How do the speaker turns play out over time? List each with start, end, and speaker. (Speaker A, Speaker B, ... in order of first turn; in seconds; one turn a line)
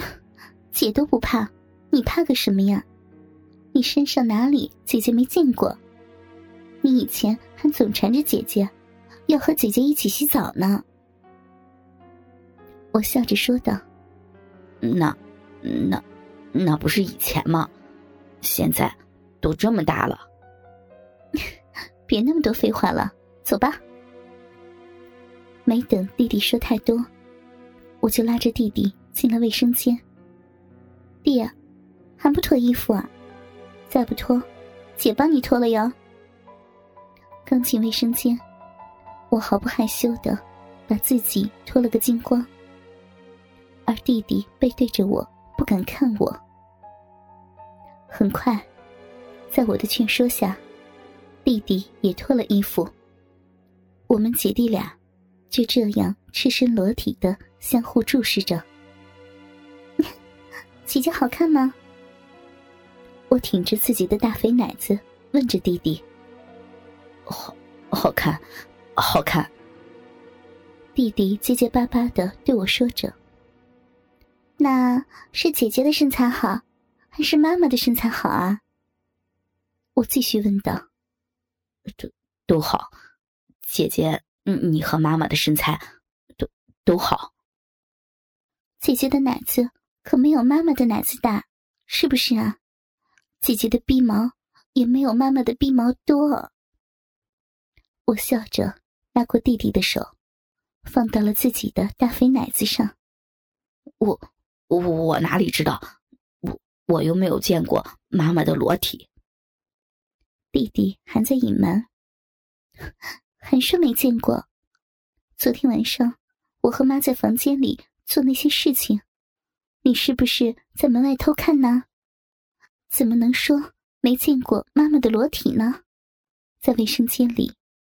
Speaker A: 0.7-2.9
Speaker A: 3.7-5.8
Speaker A: 6.8-8.7
Speaker A: 9.3-10.8
Speaker A: 12.9-13.8
Speaker B: 14.8-16.0
Speaker B: 16.5-17.7
Speaker B: 18.4-20.3
Speaker A: 22.1-23.8
Speaker A: 25.7-27.1
Speaker A: 28.0-30.0
Speaker A: 31.2-31.5
Speaker A: 32.2-33.1
Speaker A: 33.9-34.5
Speaker A: 35.0-35.9
Speaker A: 37.5-38.4
Speaker A: 39.3-42.5
Speaker A: 43.9-46.4
Speaker A: 48.1-48.7
Speaker A: 49.5-50.6
Speaker A: 51.5-52.9
Speaker A: 54.1-55.0
Speaker A: 55.5-58.6
Speaker A: 60.9-61.8
Speaker A: 63.3-66.0
Speaker B: 67.3-68.4
Speaker B: 69.0-69.5
Speaker A: 71.0-73.2
Speaker A: 74.6-78.6
Speaker A: 80.0-80.8
Speaker B: 82.5-82.9
Speaker B: 83.7-85.8
Speaker B: 86.9-87.3
Speaker A: 88.8-92.6
Speaker A: 93.4-96.5
Speaker A: 98.1-100.1
Speaker A: 100.8-102.9
Speaker B: 104.7-105.8
Speaker B: 106.5-109.1
Speaker A: 110.5-111.9
Speaker A: 113.4-114.5
Speaker A: 115.4-119.0
Speaker A: 119.8-121.9
Speaker A: 122.9-125.8
Speaker A: 126.6-127.6